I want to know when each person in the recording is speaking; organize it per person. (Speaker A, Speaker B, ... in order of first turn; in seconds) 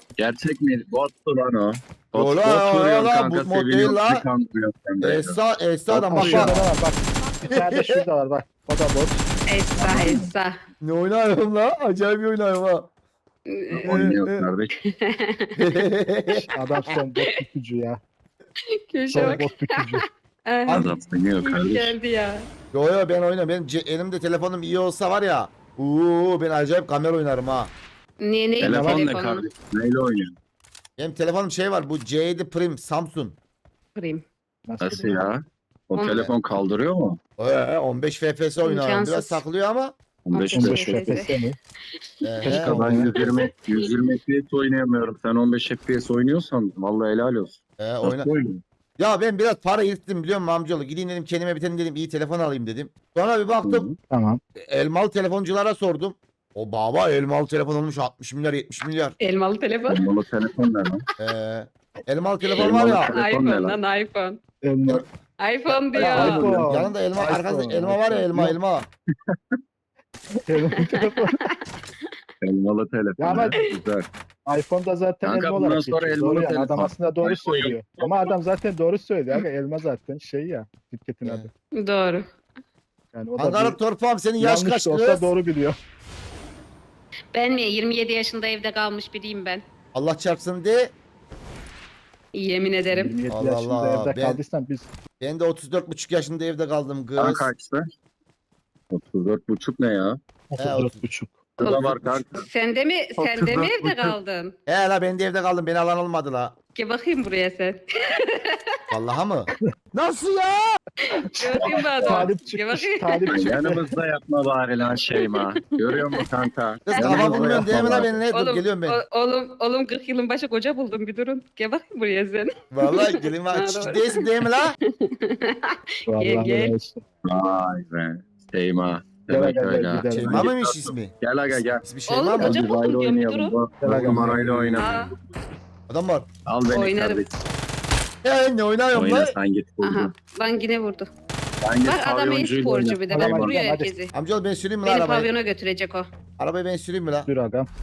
Speaker A: 0.2-5.4, 5.9-6.7, 13.7-14.7, 20.7-22.0, 28.6-30.4, 34.8-37.2, 40.2-41.2, 42.5-48.6, 53.6-54.0, 59.9-61.0, 62.6-63.8, 65.9-66.7, 72.4-74.1, 75.2-78.3, 97.2-97.8, 98.9-100.2, 101.6-102.5, 103.2-104.2, 113.3-118.2, 127.2-131.9, 132.4-135.3, 136.5-137.3, 138.9-140.1, 141.6-143.5
Speaker B: 2.1-4.2, 5.0-6.6, 7.5-8.0, 10.8-12.9, 13.8-14.4, 15.6-16.5, 22.7-27.7, 31.0-33.4, 37.4-40.0, 42.2-43.4, 47.8-48.3, 49.0-53.9, 54.6-59.2, 61.2-63.1, 65.7-68.9, 81.2-81.5, 83.4-85.3, 89.9-90.9, 93.3-94.4, 95.2-97.5, 100.6-101.0, 101.6-102.3, 104.7-106.6, 108.9-110.8, 116.9-119.0, 122.7-124.8, 130.1-132.6, 133.9-134.8, 135.9-136.3, 138.2-139.4, 144.1-145.3, 146.4-147.3
Speaker C: 6.1-10.3, 16.5-18.0, 19.1-20.1, 34.7-35.3, 40.5-41.6, 42.4-43.1, 54.1-54.4, 64.6-65.0, 66.0-68.6, 70.5-71.4, 73.2-73.6, 74.5-81.5, 83.1-83.8, 84.4-85.8, 92.9-94.9, 100.5-101.4, 111.3-113.8, 117.3-118.1, 126.1-127.0, 129.3-130.5, 133.8-134.8, 143.1-143.9, 147.3-147.7
Speaker D: 9.5-10.6, 13.5-14.1, 14.8-15.5, 16.4-17.3, 18.9-19.9, 20.5-20.9, 21.4-22.5, 28.2-29.5, 34.0-34.2, 36.0-36.3, 38.6-39.4, 40.3-41.3, 43.2-43.9, 59.2-60.0, 62.5-64.4, 65.4-66.5, 70.9-71.5, 81.8-82.3, 87.3-89.6, 92.3-93.1, 101.6-104.5, 106.8-108.8, 111.1-113.5, 115.2-116.2, 117.0-117.3, 118.3-124.5, 125.0-126.7, 132.1-133.5, 134.8-135.1, 136.7-137.2, 139.8-141.1, 141.8-144.1, 144.8-146.1